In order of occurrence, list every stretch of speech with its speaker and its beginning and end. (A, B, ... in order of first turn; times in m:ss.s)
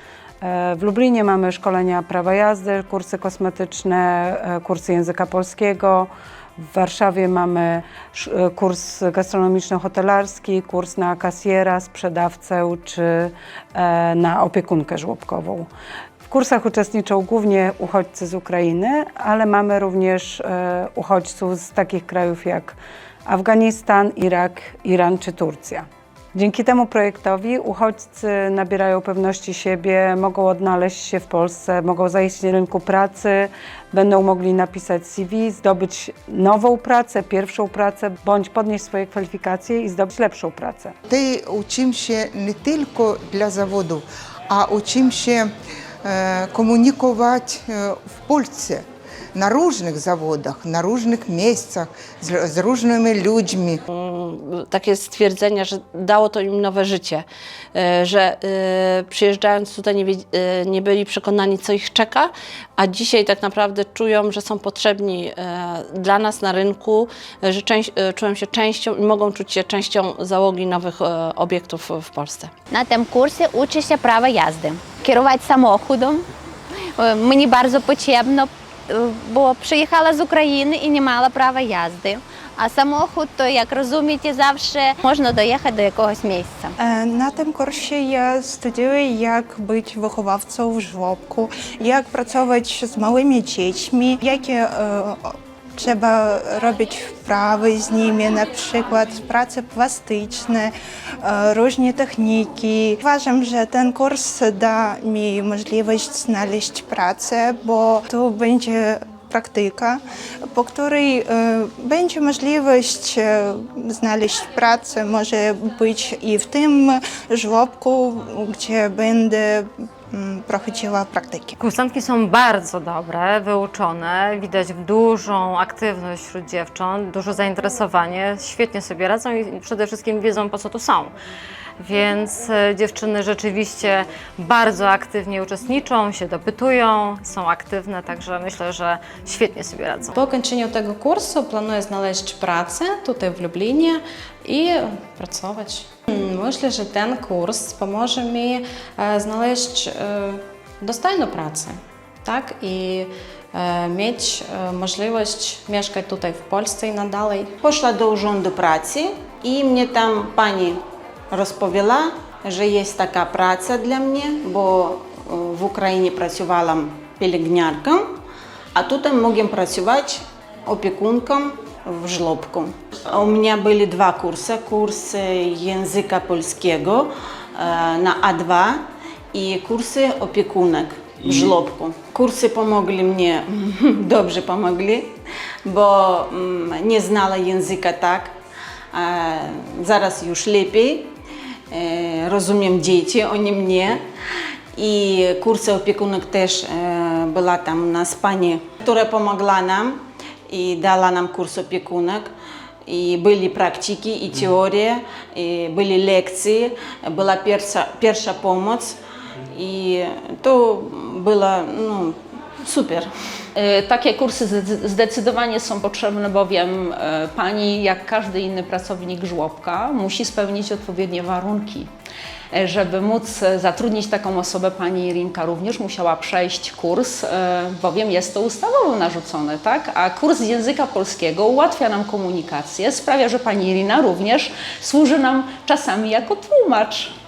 0:00.4-0:15.7 A
0:16.2-0:41.0 A
0:41.1-0:45.5 B
0:46.0-0:53.8 B
0:53.9-1:12.5 C
1:12.7-1:16.3 D
1:17.0-1:26.7 D
1:26.8-2:01.6 E
2:01.6-2:11.1 F
2:11.8-2:20.2 F
2:20.1-2:37.5 G
2:37.6-2:40.8 H
2:41.3-2:48.1 H
2:48.8-2:58.8 H
2:59.3-3:05.1 H
3:05.6-3:08.3 H
3:08.9-3:11.1 H
3:11.7-3:14.0 H
3:14.8-3:22.3 H
3:22.9-3:29.0 H
3:29.5-3:33.1 H
3:33.6-3:41.9 I
3:42.5-3:57.1 I